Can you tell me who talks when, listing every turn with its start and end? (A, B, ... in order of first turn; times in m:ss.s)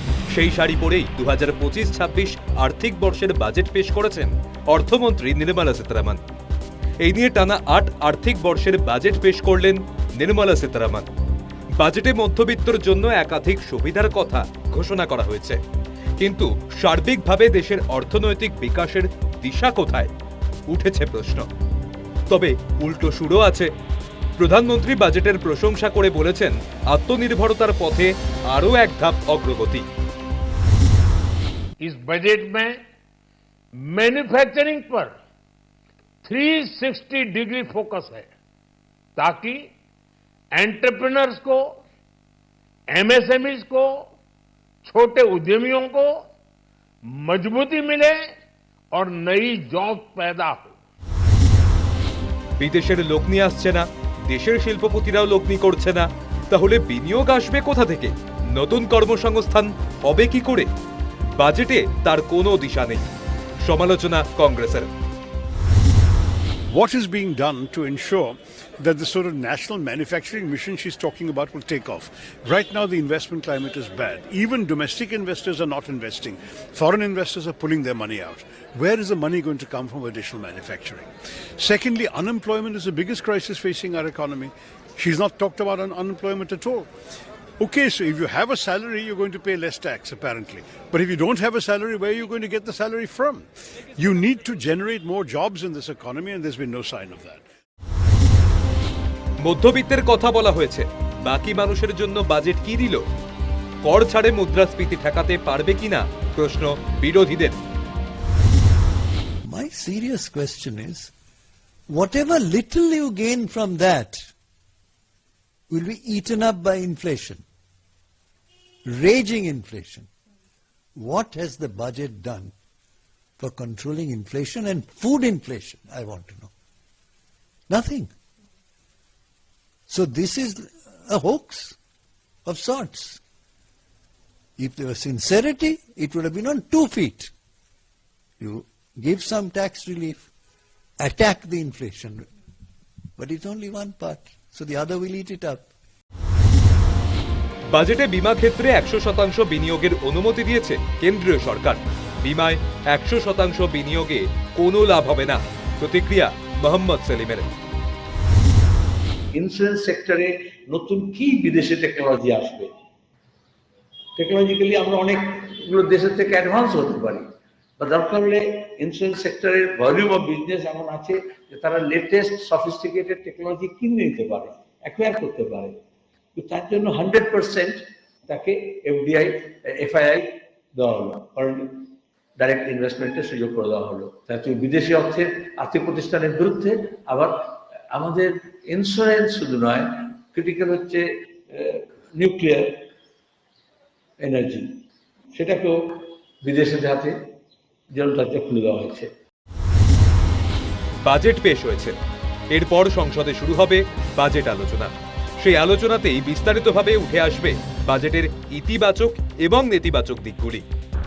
0:00.3-0:06.2 A
0:07.0-0:11.1 A
0:11.8-0:15.6 A
0:16.2-0:20.1 A
0:20.7-0:21.5 A
0:22.3-0:23.7 A
0:24.4-0:29.8 A
0:31.8-0:32.8 B
0:33.7-0:35.1 B
0:36.2-0:38.3 B
0:39.2-0:39.7 B
0:40.5-0:41.8 B
0:42.9-0:44.1 B
0:44.8-0:46.2 B
0:47.0-0:48.2 B
0:48.9-0:50.8 B
0:52.6-1:00.7 A
1:01.4-1:03.1 A
1:03.6-1:04.9 A
1:06.7-1:26.9 C
1:27.6-1:33.4 C
1:34.0-1:37.4 C
1:39.4-1:43.0 A
1:43.8-1:47.6 A
1:49.4-1:51.1 D
1:51.9-1:54.3 D
1:55.7-1:57.4 D
1:58.8-2:00.1 D
2:01.0-2:02.5 D
2:03.4-2:06.5 D
2:07.7-2:08.1 D
2:09.9-2:11.8 D
2:12.5-2:13.2 D
2:14.6-2:17.3 D
2:18.4-2:20.3 D
2:21.0-2:22.3 D
2:23.2-2:25.7 D
2:27.7-2:37.5 A
2:39.3-2:42.7 E
2:44.2-2:47.2 E
2:47.8-2:55.8 E
2:56.4-3:07.3 E
3:07.9-3:12.8 E
3:14.2-3:14.7 E
3:15.3-3:15.8 E
3:16.4-3:17.2 E
3:17.9-3:19.1 E
3:21.0-3:22.0 A
3:22.5-3:30.6 A